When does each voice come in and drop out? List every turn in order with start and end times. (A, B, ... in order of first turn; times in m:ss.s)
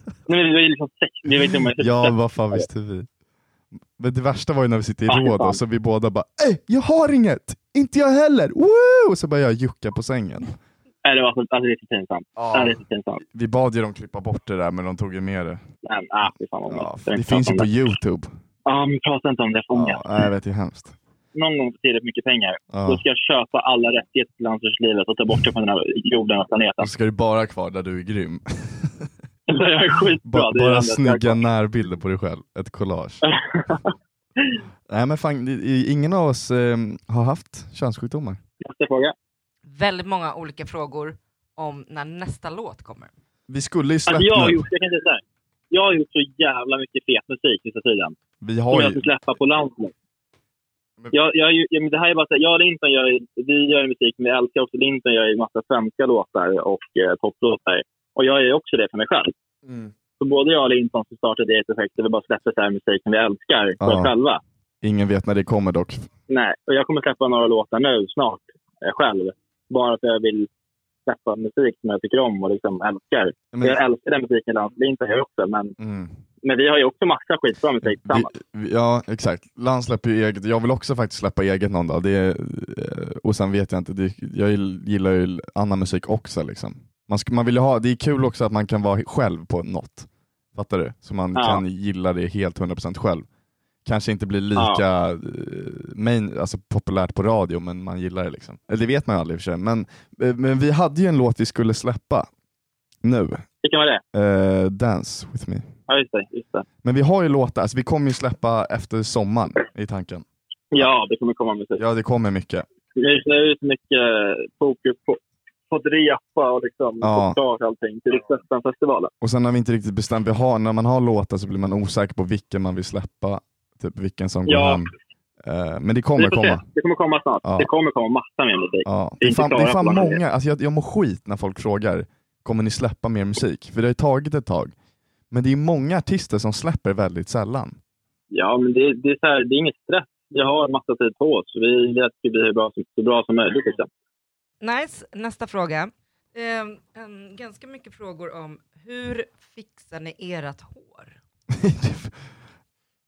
0:00.3-0:02.6 A
0:01.8-0:03.1 B
0:04.0-0:10.5 B
0:05.1-0:05.6 A
0:11.0-0:13.2 A
0:12.4-0:15.6 B
0:15.8-0:17.7 A
0:16.7-0:18.3 B
0:18.6-0:20.0 A
0:19.7-0:21.0 B
0:21.3-0:26.9 A
0:22.7-0:23.0 B
0:26.8-0:29.1 B
0:29.5-0:31.4 A
0:30.2-0:33.2 B
0:33.2-0:33.9 A
0:34.9-0:38.4 B
0:38.6-0:39.1 A
0:39.6-0:43.1 C
0:43.5-0:44.6 B
0:44.1-0:48.2 A
0:48.4-0:49.0 B
0:48.7-0:49.9 A
0:51.1-0:59.3 A
0:59.6-0:59.9 B
1:00.2-1:04.4 A
1:03.8-1:04.1 B
1:04.8-1:06.1 B
1:06.3-1:10.5 A
1:11.0-1:15.7 A
1:13.5-1:13.8 B
1:15.8-1:16.2 B
1:16.4-1:18.3 A
1:17.8-1:33.2 B
1:31.3-1:31.6 A
1:33.8-1:42.3 B
1:34.6-1:34.8 A
1:43.0-1:43.4 B
1:43.6-1:44.0 A
1:44.1-1:45.7 B
1:45.9-1:46.6 A
1:46.8-1:50.2 B
1:50.7-1:51.8 A
1:51.8-1:52.6 B
1:53.0-1:55.2 A
1:55.7-1:59.1 A
1:57.0-1:57.4 B
1:59.2-2:04.9 B
2:04.5-2:04.8 A
2:05.4-2:06.6 B
2:06.2-2:10.2 A
2:07.4-2:07.7 B
2:08.8-2:14.7 B
2:15.3-2:17.8 B
2:18.3-2:23.9 A
2:24.6-2:31.1 C
2:31.5-2:32.2 B